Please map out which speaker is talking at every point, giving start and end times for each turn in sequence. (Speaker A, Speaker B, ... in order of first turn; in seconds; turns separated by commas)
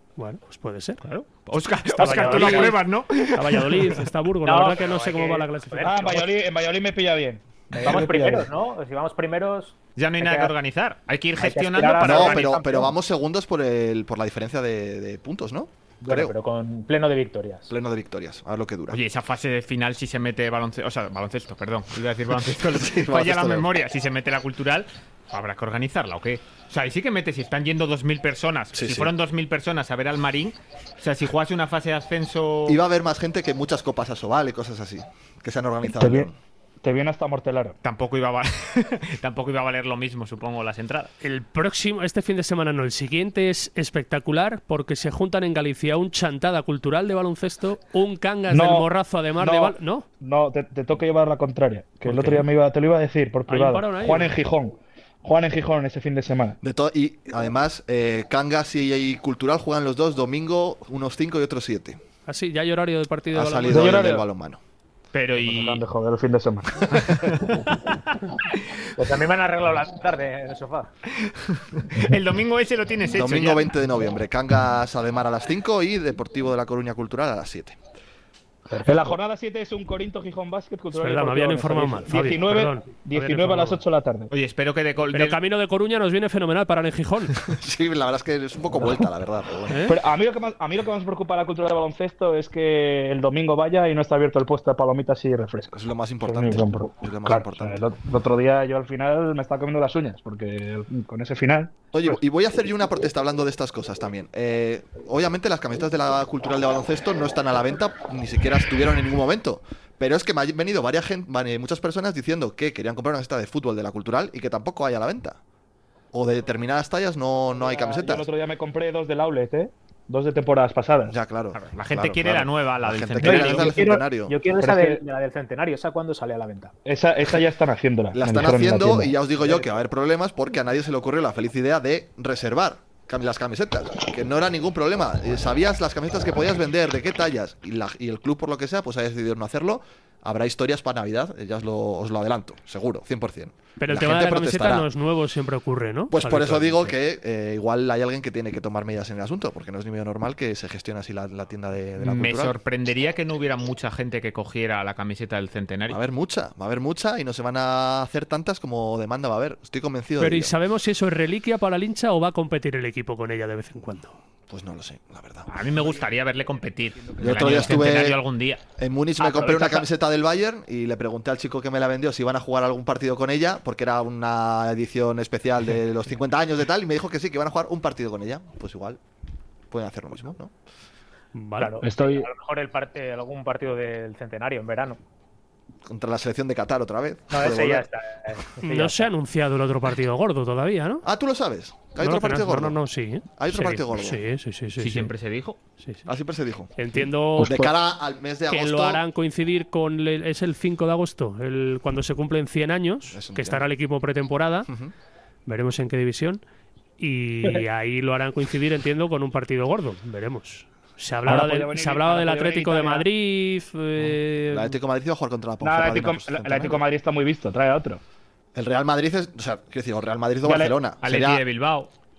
Speaker A: 0.2-1.0, Speaker B: 1.0-4.0, Speaker C: 2.0-2.8, Speaker A: 2.0-2.8, Speaker A: 3.3-6.2, Speaker C: 4.4-6.4, Speaker D: 5.8-8.5, Speaker C: 7.8-10.5, Speaker B: 9.9-12.6, Speaker C: 11.4-12.9, Speaker E: 12.0-16.3, Speaker C: 16.0-17.7, Speaker E: 17.7-19.0, Speaker B: 18.9-32.8, Speaker E: 22.4-23.7, Speaker E: 28.7-29.1, Speaker E: 32.6-36.4, Speaker D: 36.0-36.3, Speaker D: 36.8-37.8, Speaker B: 37.8-41.1, Speaker A: 41.2-50.0, Speaker D: 48.5-56.6, Speaker A: 52.0-52.5, Speaker A: 53.5-54.3, Speaker E: 56.6-62.0, Speaker A: 62.3-64.1, Speaker E: 63.3-64.6, Speaker D: 63.7-64.2, Speaker B: 65.1-65.8, Speaker D: 65.4-67.5, Speaker B: 67.1-67.6, Speaker C: 69.0-70.9, Speaker B: 71.2-73.7, Speaker E: 73.1-77.8, Speaker C: 78.7-79.1, Speaker D: 78.8-84.3, Speaker A: 80.9-83.8, Speaker B: 84.3-85.4, Speaker A: 85.1-87.3, Speaker E: 87.5-89.9, Speaker A: 89.7-90.0, Speaker D: 89.9-102.2, Speaker E: 95.7-97.8, Speaker E: 101.9-115.4, Speaker E: 116.1-118.3, Speaker D: 117.5-121.1, Speaker E: 121.1-124.3, Speaker B: 121.5-123.7, Speaker C: 123.2-126.7, Speaker D: 124.6-125.0, Speaker D: 126.8-129.6, Speaker E: 128.1-144.9, Speaker A: 143.8-146.9, Speaker E: 146.1-152.6, Speaker B: 152.1-156.0, Speaker E: 155.9-160.6, Speaker A: 160.2-164.2, Speaker E: 164.5-165.5, Speaker B: 165.5-168.6, Speaker D: 165.9-166.1, Speaker D: 166.9-167.9, Speaker E: 167.2-168.2, Speaker E: 168.8-179.0, Speaker C: 169.2-169.9, Speaker E: 179.7-180.5, Speaker A: 181.3-181.8, Speaker C: 181.6-185.0, Speaker D: 181.8-182.3, Speaker E: 185.9-187.9, Speaker C: 187.3-189.1, Speaker A: 188.6-191.0, Speaker E: 191.0-192.8, Speaker A: 192.0-195.1, Speaker E: 193.4-194.2, Speaker B: 194.8-195.6, Speaker A: 195.8-196.0, Speaker E: 196.1-196.7, Speaker A: 196.8-197.6, Speaker D: 197.4-197.7, Speaker E: 197.4-199.0, Speaker A: 198.5-204.7, Speaker E: 203.1-203.7, Speaker E: 204.7-204.9, Speaker A: 205.4-206.4, Speaker A: 207.0-214.7, Speaker D: 211.2-213.1, Speaker E: 214.0-216.8, Speaker D: 215.6-218.0, Speaker E: 218.5-221.4, Speaker D: 220.4-220.8, Speaker B: 221.0-221.9